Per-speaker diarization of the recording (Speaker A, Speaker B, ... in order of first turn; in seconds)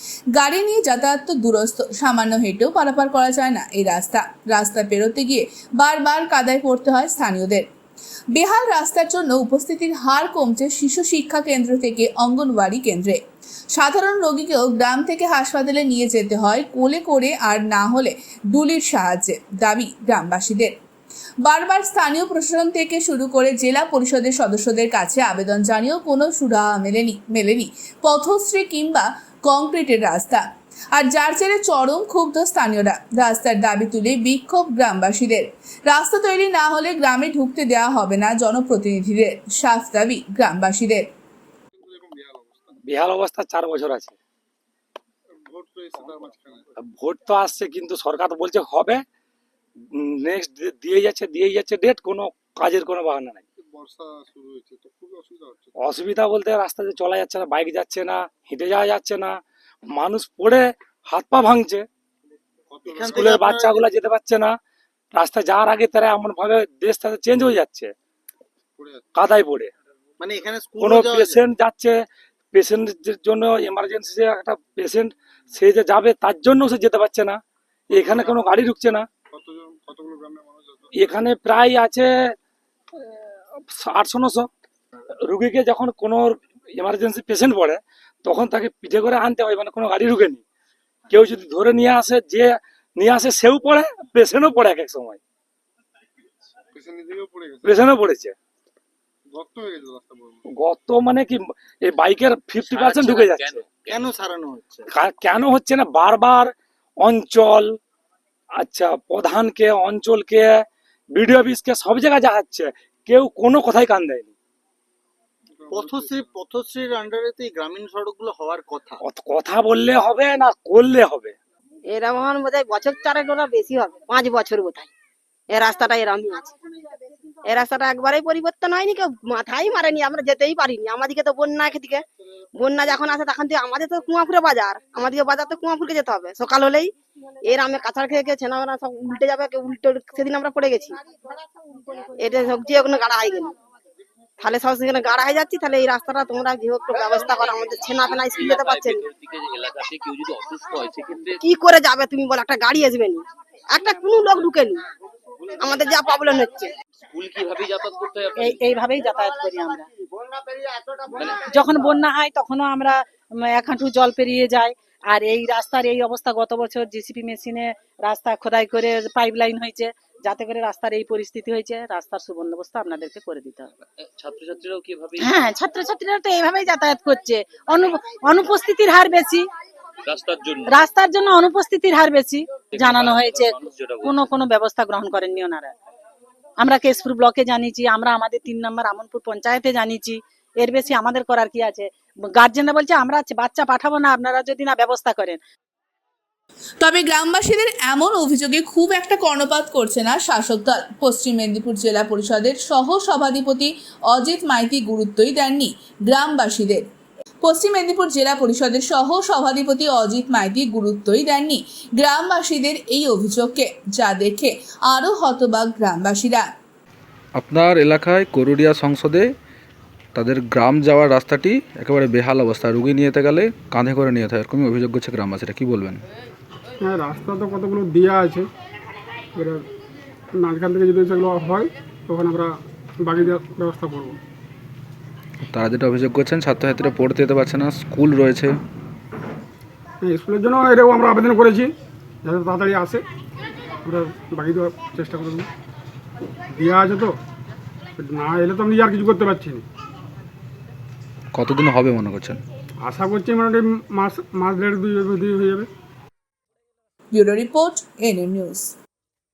Speaker A: 0.4-7.7, 8.3-13.2, 13.7-20.7, 21.4-41.0, 196.8-206.8, 207.4-216.5, 257.1-258.7
Speaker B: 41.8-42.8, 45.5-46.6, 53.6-55.7, 62.7-63.3, 68.8-69.1, 77.9-78.4, 79.3-81.2, 96.7-97.8, 99.3-100.4, 115.6-116.4
Speaker C: 42.9-44.1, 46.9-49.0, 50.0-53.4, 55.8-59.3, 60.0-61.8, 63.1-64.5, 65.2-67.9, 69.2-69.7, 70.8-71.9, 72.5-77.4, 77.9-79.1, 81.0-82.1, 83.7-84.5, 85.3-90.4, 91.1-95.2, 97.6-98.3, 100.6-103.7, 104.9-106.5, 107.0-107.7, 108.6-110.5, 111.2-114.3, 119.0-121.4
Speaker D: 62.9-63.9, 70.2-71.5, 103.9-104.9, 115.7-119.0
Speaker E: 102.6-104.2, 147.9-151.4, 157.1-159.3, 161.1-161.7, 174.0-175.6, 180.1-180.7, 182.7-184.3
Speaker F: 121.9-124.9, 125.5-126.5, 127.4-132.0, 132.6-136.9, 137.4-141.0, 142.1-143.5, 144.4-149.1, 151.4-154.8, 155.6-156.7
Speaker G: 158.4-159.9, 161.3-173.7, 175.2-179.5, 180.7-185.7, 186.6-195.4
Speaker H: 217.4-219.3, 220.2-226.0, 235.5-238.6, 251.3-252.4
Speaker I: 226.8-228.5, 229.3-229.7, 230.3-234.2, 240.0-243.0, 243.8-245.5, 246.5-247.2, 248.0-249.6, 252.8-255.7